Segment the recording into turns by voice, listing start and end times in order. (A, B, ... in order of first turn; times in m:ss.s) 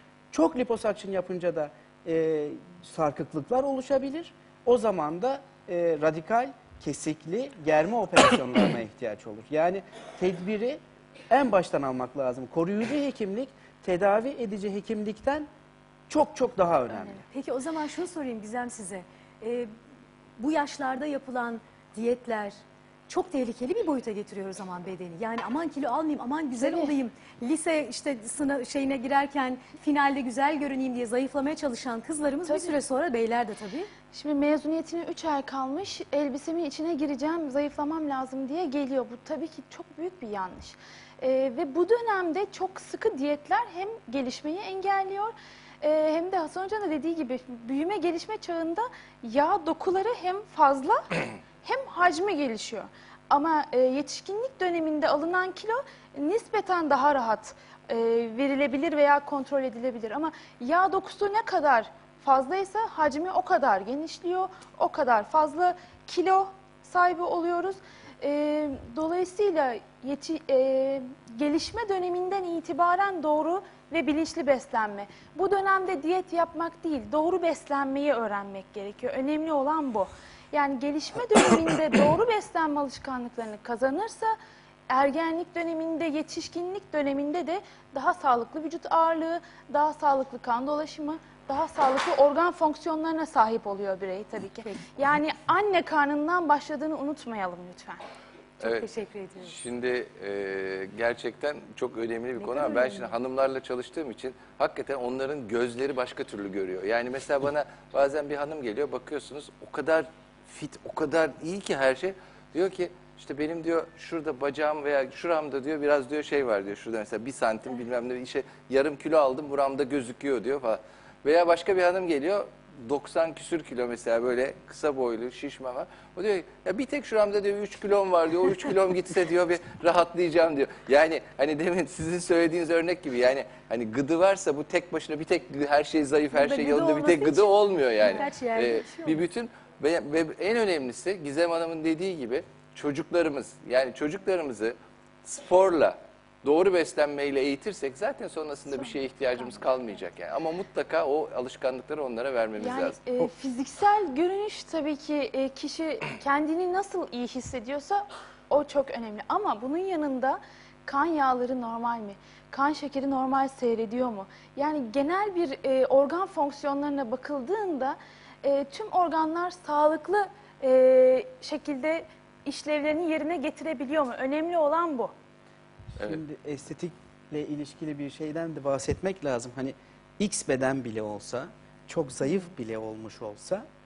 0:00.3-0:10.8 A
0:11.3-0:15.5 A
0:16.1-0:17.2 A
0:17.3-0:19.7 B
0:20.4-0:22.5 B
0:23.1-0:33.9 B
0:26.6-0:26.9 C
0:32.4-0:32.8 C
0:34.1-1:24.3 C
1:24.9-1:38.0 C
1:38.6-1:38.8 D
1:38.6-1:39.5 B
1:39.4-2:33.0 D
1:42.4-1:43.1 B
2:16.3-2:19.2 B
2:28.7-2:29.9 C
2:32.6-2:55.1 C
2:56.0-3:03.6 A